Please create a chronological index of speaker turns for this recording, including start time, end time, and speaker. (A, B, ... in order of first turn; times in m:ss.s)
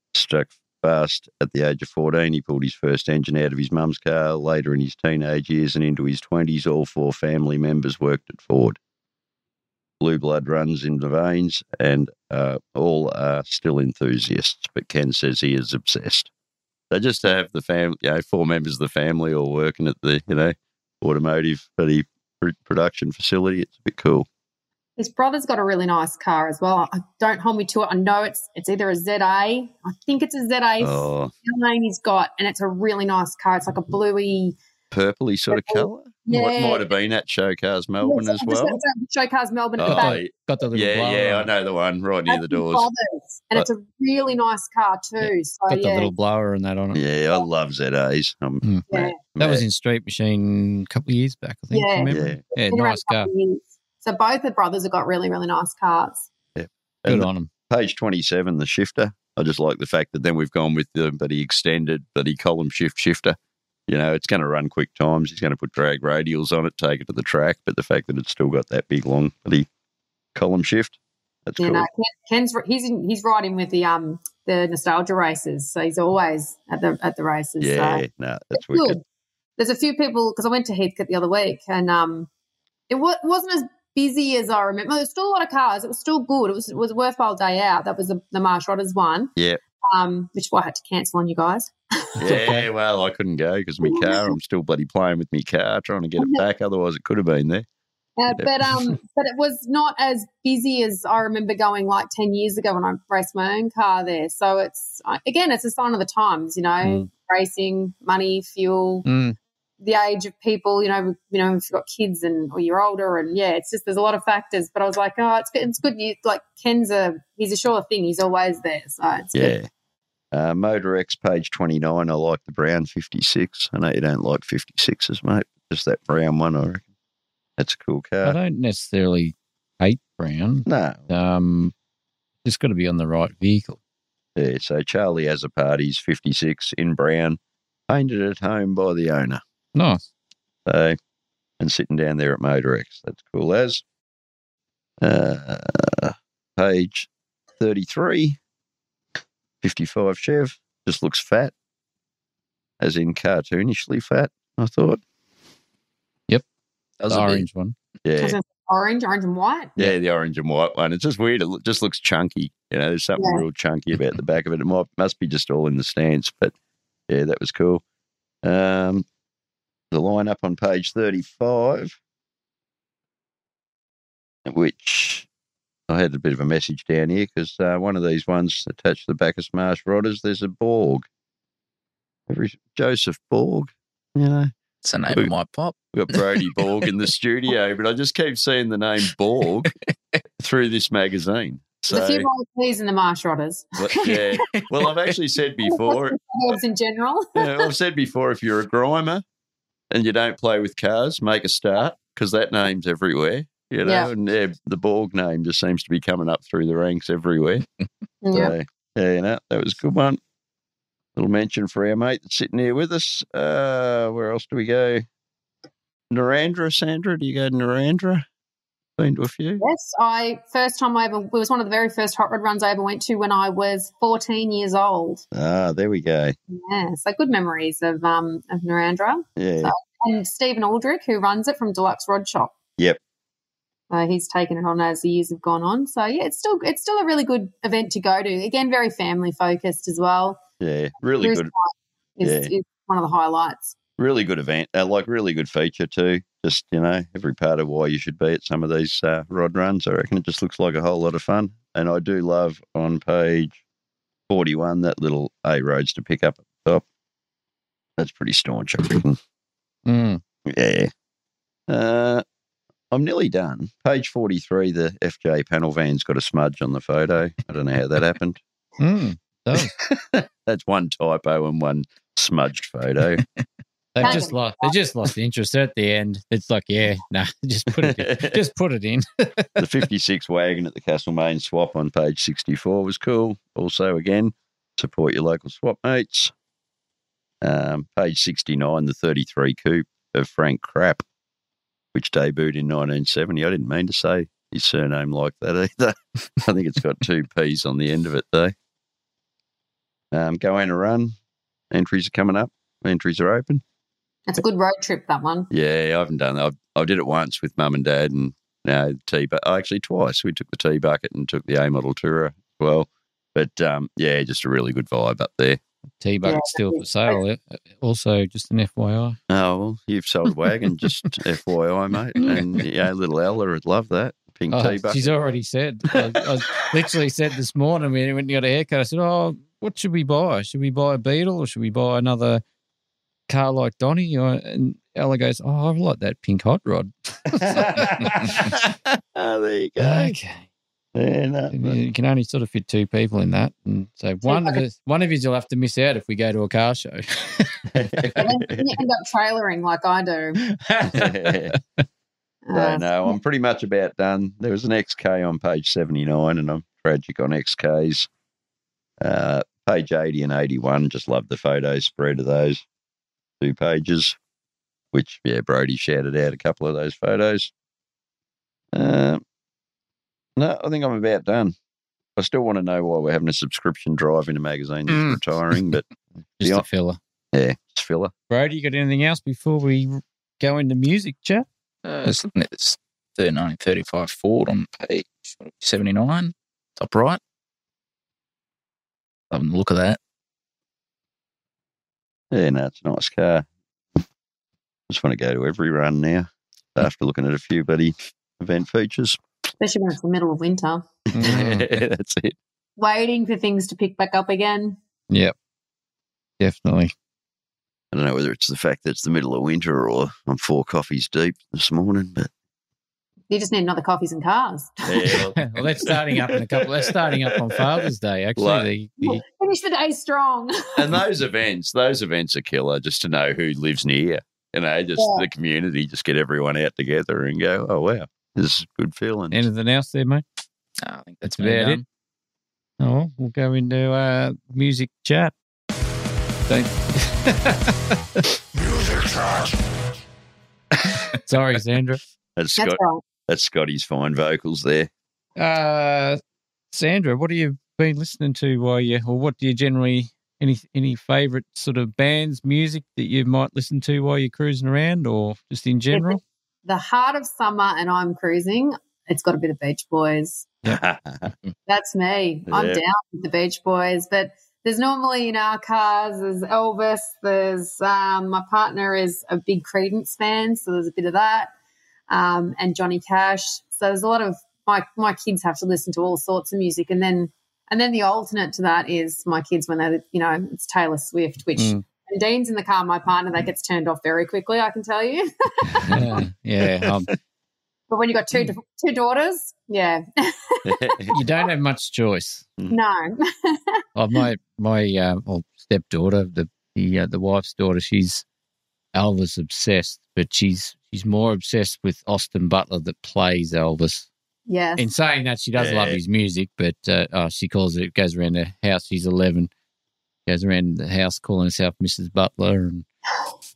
0:00.1-0:08.8 A
0:10.0-0:16.3 A
0:16.9-0:24.3 A
0:25.0-0:34.6 B
0:30.8-0:31.3 A
0:34.9-0:38.8 A
0:35.5-0:36.9 B
0:38.0-0:40.2 B
0:39.8-0:42.9 A
0:39.9-0:41.5 C
0:42.3-0:46.1 B
0:45.2-0:47.0 C
0:46.9-0:49.6 A
0:48.6-0:53.3 C
0:48.9-0:49.2 B
0:51.7-0:56.3 B
0:52.1-0:52.4 A
0:56.6-1:03.4 A
0:57.1-0:57.5 C
1:03.9-1:09.7 A
1:10.4-1:11.9 A
1:11.6-1:19.0 B
1:17.6-1:19.0 A
1:19.6-1:22.3 B
1:22.9-1:29.3 B
1:29.9-1:32.4 B
1:32.2-1:37.7 A
1:32.3-1:32.7 C
1:33.8-1:34.4 B
1:36.2-1:36.4 B
1:38.2-1:49.1 B
1:38.4-1:39.0 A
1:46.8-1:47.1 C
1:49.1-1:49.4 C
1:49.8-1:59.5 B
1:59.4-1:59.7 A
2:00.3-2:06.8 A
2:07.6-2:08.4 A
2:08.2-2:11.7 C
2:10.7-2:11.1 A
2:12.4-2:13.8 C
2:14.4-2:19.4 A
2:19.8-2:20.0 C
2:20.7-2:21.0 A
2:21.6-2:23.8 A
2:25.0-2:28.4 A
2:29.6-2:31.5 A
2:32.8-2:35.0 A
2:37.0-2:37.4 D
2:37.1-2:37.8 C
2:38.0-2:38.4 A
2:38.2-2:39.8 B
2:39.8-2:46.5 A
2:43.2-2:43.4 B
2:47.1-2:47.8 A
2:48.4-2:49.1 A
2:49.9-2:52.0 A
2:54.5-2:55.3 A
2:55.9-3:01.1 A
3:02.3-3:04.5 A
3:04.8-3:06.7 D
3:05.9-3:09.7 A
3:10.4-3:12.3 A
3:11.9-3:14.6 B
3:13.8-3:16.2 A
3:14.1-3:14.6 D
3:15.6-3:17.7 B
3:17.4-3:19.2 A
3:19.9-3:27.6 A
3:23.8-3:24.1 B
3:28.2-3:28.5 B
3:28.3-3:30.2 A
3:31.2-3:35.1 A
3:36.1-3:38.2 A
3:39.0-3:39.6 A
3:39.6-3:45.2 B
3:45.3-3:46.4 A
3:46.5-3:52.5 B
3:49.4-3:49.7 A
3:53.9-4:00.4 B
4:00.6-4:01.5 A
4:01.2-4:03.8 B
4:02.2-4:02.5 A
4:04.0-4:13.6 A
4:14.3-4:16.8 A
4:18.0-4:19.2 A
4:19.9-4:20.2 C
4:20.5-4:20.9 A
4:21.7-4:22.2 A
4:22.9-4:28.4 A
4:28.8-4:29.7 C
4:29.9-4:33.2 A
4:34.0-4:39.6 C
4:34.0-4:34.8 B
4:37.7-4:38.4 A
4:39.6-4:46.3 A
4:47.4-4:51.0 A
4:51.9-4:58.5 A
5:00.1-5:01.1 A
5:01.7-5:03.6 A
5:04.3-5:05.5 B
5:05.5-5:15.6 A
5:16.0-5:19.2 C
5:16.2-5:17.2 B
5:19.3-5:25.1 A
5:22.2-5:22.6 C
5:24.5-5:32.4 C
5:33.3-5:38.4 C
5:37.4-5:40.2 A
5:39.8-5:40.5 C
5:41.0-5:41.8 A
5:41.5-5:48.2 C
5:44.2-5:44.6 B
5:47.7-5:48.7 A
5:48.2-5:50.4 B
5:50.4-5:51.6 C
5:50.8-5:51.6 A
5:52.5-5:53.2 B
5:52.5-5:58.1 A
5:59.0-6:02.6 A
6:03.4-6:04.2 A
6:04.9-6:07.5 A
6:08.7-6:09.2 A
6:10.4-6:11.6 A
6:12.2-6:15.8 A
6:14.9-6:15.2 C
6:16.4-6:17.0 C
6:17.3-6:18.1 A
6:18.3-6:21.5 C
6:21.8-6:27.2 D
6:29.3-6:30.0 D
6:32.3-6:33.5 A
6:34.9-6:39.2 A
6:39.6-6:40.9 B
6:41.1-6:42.4 A
6:41.1-6:41.7 C
6:42.8-6:44.8 B
6:46.4-6:46.9 C
6:47.9-6:52.3 A
6:53.3-6:55.2 B
6:54.9-6:57.6 A
6:55.4-6:59.2 C
6:58.4-6:58.7 A
6:59.0-7:01.0 B
7:00.8-7:09.4 A
7:05.0-7:05.3 B
7:09.3-7:10.2 C
7:10.8-7:11.8 D
7:11.3-7:11.8 C
7:12.8-7:15.4 C
7:16.5-7:18.0 C
7:21.2-7:22.0 C
7:22.4-7:24.9 A
7:22.6-7:23.0 B
7:25.4-7:26.2 C
7:26.7-7:36.2 C
7:35.9-7:40.5 B
7:40.6-7:41.3 A
7:41.7-7:51.5 B
7:42.5-7:42.8 A
7:52.1-8:06.2 B
8:01.6-8:01.8 C
8:05.9-8:07.1 C
8:07.9-8:11.3 B
8:10.6-8:11.1 A
8:11.1-8:12.4 C
8:12.7-8:13.8 B
8:14.0-8:18.2 C
8:18.9-8:24.1 C
8:24.5-8:24.9 B
8:24.8-8:29.5 C
8:25.6-8:26.0 A
8:30.3-8:32.9 C